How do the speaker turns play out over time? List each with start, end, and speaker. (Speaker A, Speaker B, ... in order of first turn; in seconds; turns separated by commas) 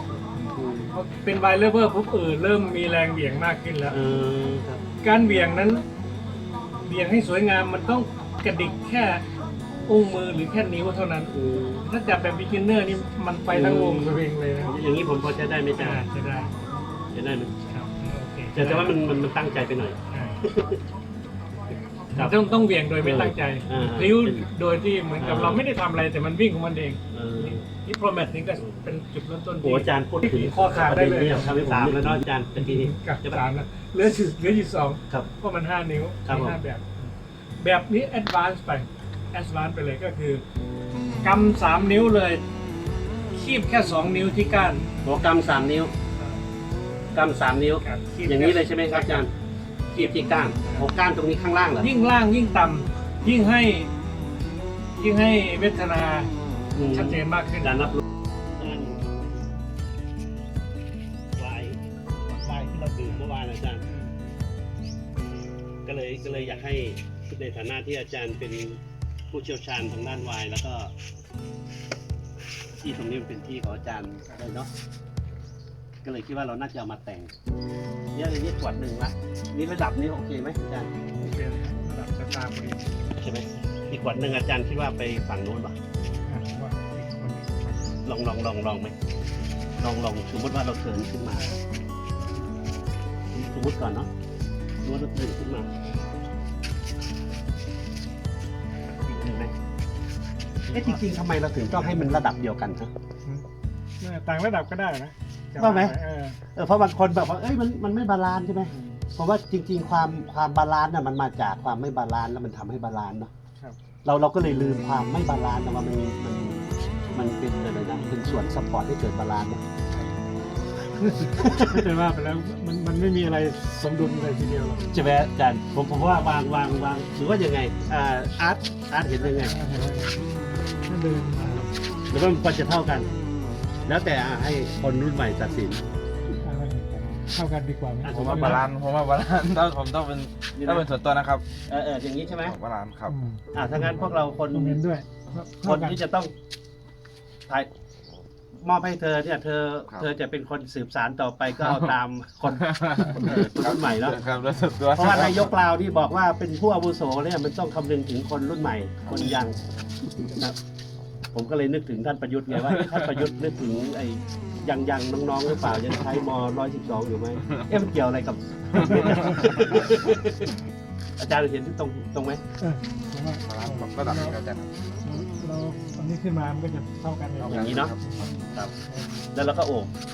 Speaker A: 0.2-4.0, Speaker B: 0.6-1.0, Speaker B: 3.9-4.8, Speaker A: 5.0-5.8, Speaker A: 6.8-9.2, Speaker A: 9.9-14.8, Speaker B: 11.3-11.8, Speaker B: 13.5-16.0, Speaker A: 15.8-16.5, Speaker B: 17.1-17.6, Speaker A: 17.7-19.0, Speaker B: 18.6-20.8, Speaker A: 20.1-20.4, Speaker A: 22.1-40.4, Speaker B: 23.0-24.5, Speaker B: 25.2-25.6, Speaker B: 27.1-27.6, Speaker B: 28.6-28.8, Speaker B: 29.6-33.4, Speaker B: 36.3-36.6, Speaker A: 41.2-42.4, Speaker A: 43.3-44.9, Speaker B: 45.0-45.9, Speaker A: 46.1-46.5, Speaker B: 47.1-49.3, Speaker A: 47.8-49.3, Speaker B: 50.0-51.9, Speaker A: 50.0-50.9, Speaker A: 51.8-53.9, Speaker A: 55.0-56.3, Speaker B: 56.8-58.0, Speaker A: 56.9-58.0, Speaker B: 58.6-59.1, Speaker B: 61.4-63.8, Speaker A: 63.9-64.3, Speaker B: 65.8-68.8, Speaker A: 66.1-66.8, Speaker B: 69.3-70.9, Speaker B: 72.8-74.7, Speaker B: 76.0-77.3, Speaker B: 78.1-80.9, Speaker A: 81.1-83.9, Speaker B: 83.2-85.8, Speaker A: 86.2-88.0, Speaker B: 88.0-89.0, Speaker B: 89.8-91.5, Speaker A: 91.3-91.6, Speaker B: 93.3-94.1, Speaker B: 94.8-95.7, Speaker B: 99.1-99.5, Speaker A: 100.6-101.1, Speaker B: 100.7-102.9, Speaker A: 101.6-102.2, Speaker A: 104.0-106.4, Speaker B: 105.6-106.0, Speaker B: 106.5-113.3, Speaker A: 108.6-109.0, Speaker B: 114.0-119.6, Speaker A: 119.9-120.2, Speaker A: 120.9-124.9, Speaker B: 121.3-121.8, Speaker B: 124.9-129.6, Speaker A: 129.2-130.2, Speaker A: 130.9-131.8, Speaker B: 132.1-133.1, Speaker B: 133.9-135.8, Speaker A: 136.4-138.7, Speaker B: 138.0-138.7, Speaker C: 138.1-141.4, Speaker B: 140.6-140.9, Speaker B: 141.7-142.6, Speaker C: 142.4-143.2, Speaker A: 143.1-146.0, Speaker B: 143.5-144.8, Speaker B: 145.6-146.3, Speaker B: 148.6-154.2, Speaker C: 152.5-155.5, Speaker B: 154.9-160.6, Speaker B: 161.3-170.5, Speaker C: 162.7-163.0, Speaker C: 168.7-169.8, Speaker A: 168.8-169.5, Speaker B: 171.2-172.4, Speaker A: 172.6-174.4, Speaker C: 173.5-175.0, Speaker A: 175.0-179.2, Speaker C: 177.4-178.3, Speaker B: 177.4-177.9, Speaker B: 179.3-179.9